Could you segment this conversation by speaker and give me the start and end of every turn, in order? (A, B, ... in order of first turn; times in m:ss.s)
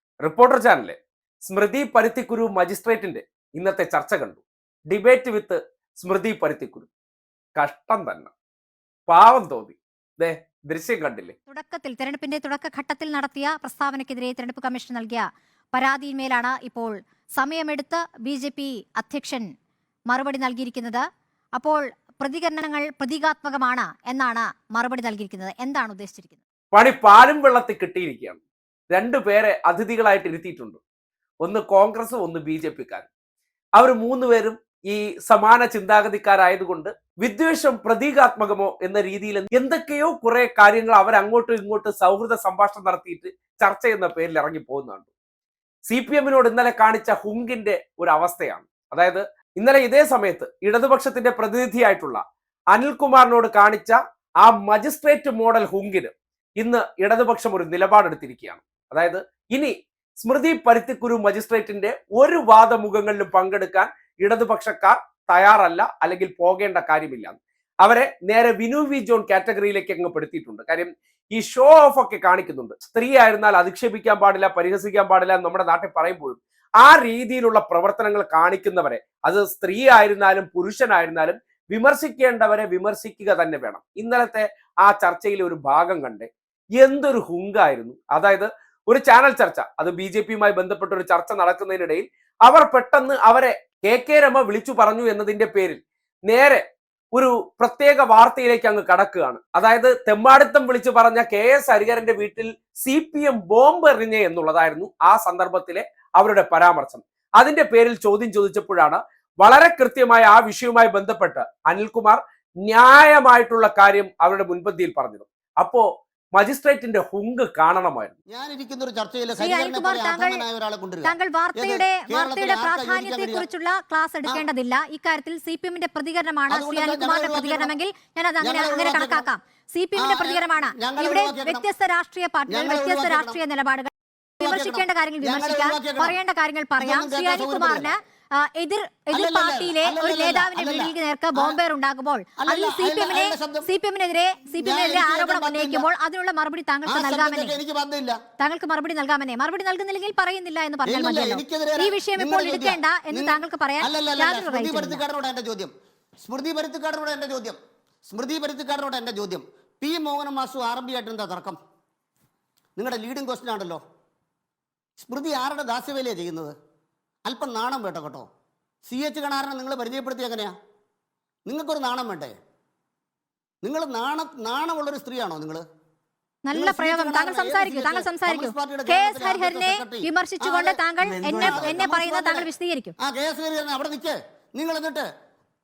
0:00.2-0:06.9 A
0:07.6-0:08.3 A
0:09.1-0:11.3 A
0:11.5-0:19.5 B
0:20.1-0:21.0 B
0:21.6-0:26.4 B
0:26.7-0:30.8 A
0:31.4-0:33.1 A
0:33.8-0:45.0 A
0:45.9-0:52.2 A
0:52.7-1:36.6 A
1:37.1-1:58.1 A
1:58.3-2:03.5 C
1:59.4-2:00.4 B
2:01.0-2:27.6 B
2:06.5-2:07.7 C
2:08.4-2:09.3 C
2:09.9-2:11.6 C
2:12.5-2:13.4 C
2:14.4-2:16.2 C
2:16.8-2:17.9 C
2:19.1-2:21.6 C
2:22.4-2:23.7 C
2:24.6-2:25.8 C
2:26.8-2:28.2 C
2:28.4-2:35.0 B
2:30.8-2:37.6 C
2:38.1-2:41.6 C
2:42.8-2:43.8 C
2:45.0-2:46.5 C
2:47.2-2:48.3 C
2:48.8-2:50.5 C
2:51.5-2:52.4 C
2:53.6-2:55.6 C
2:56.4-3:02.9 B
2:56.5-3:05.1 C